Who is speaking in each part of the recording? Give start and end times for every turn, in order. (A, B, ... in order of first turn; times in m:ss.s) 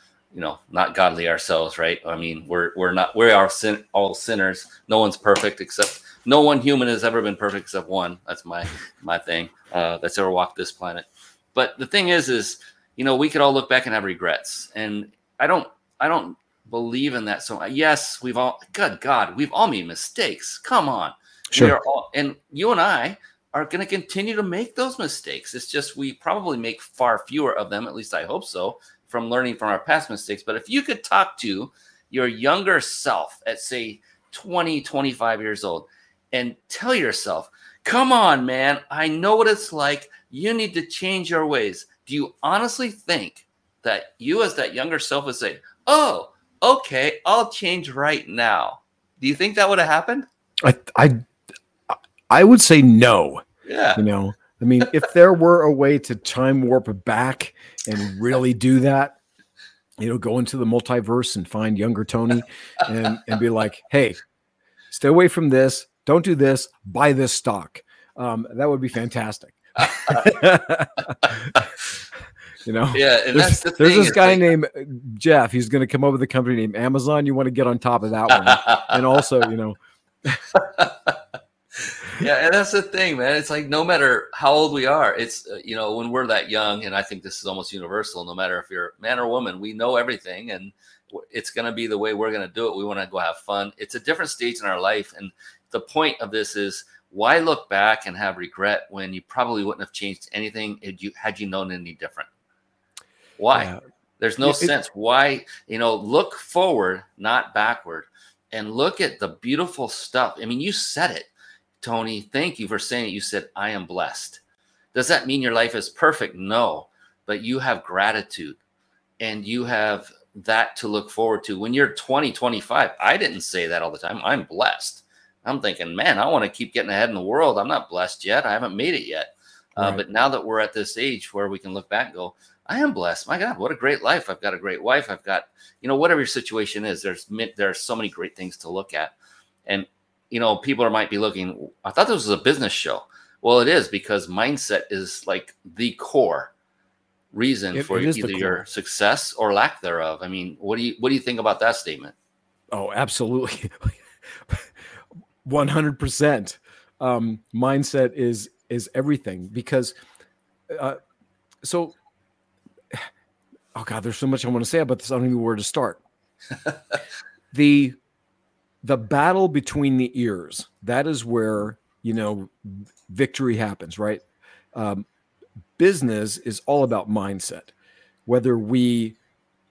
0:00.3-0:50.3 A
0:50.6-0:51.2 B
0:51.9-0:53.4 B
0:53.6-0:54.0 A
0:54.0-0:59.2 B
1:00.0-1:04.2 B
1:04.9-1:11.7 B
1:12.6-1:20.4 B
1:12.9-1:14.5 A
1:18.4-1:18.9 A
1:20.6-1:21.2 A
1:22.0-1:42.3 A
1:43.4-1:51.3 A
1:43.5-1:43.8 B
1:44.4-1:44.7 B
1:51.8-1:54.4 A
1:54.9-1:58.6 A
1:59.2-2:19.2 A
2:09.8-2:10.0 B
2:19.7-2:26.5 A
2:27.3-2:32.1 A
2:27.7-2:28.6 B
2:32.7-2:34.7 B
2:35.4-2:39.9 B
2:40.7-2:41.0 B
2:41.6-2:42.0 B
2:43.8-2:46.0 B
2:47.5-2:48.0 B
2:48.8-2:54.2 B
2:54.7-2:55.0 B
2:55.8-2:57.7 B
2:58.3-2:59.2 B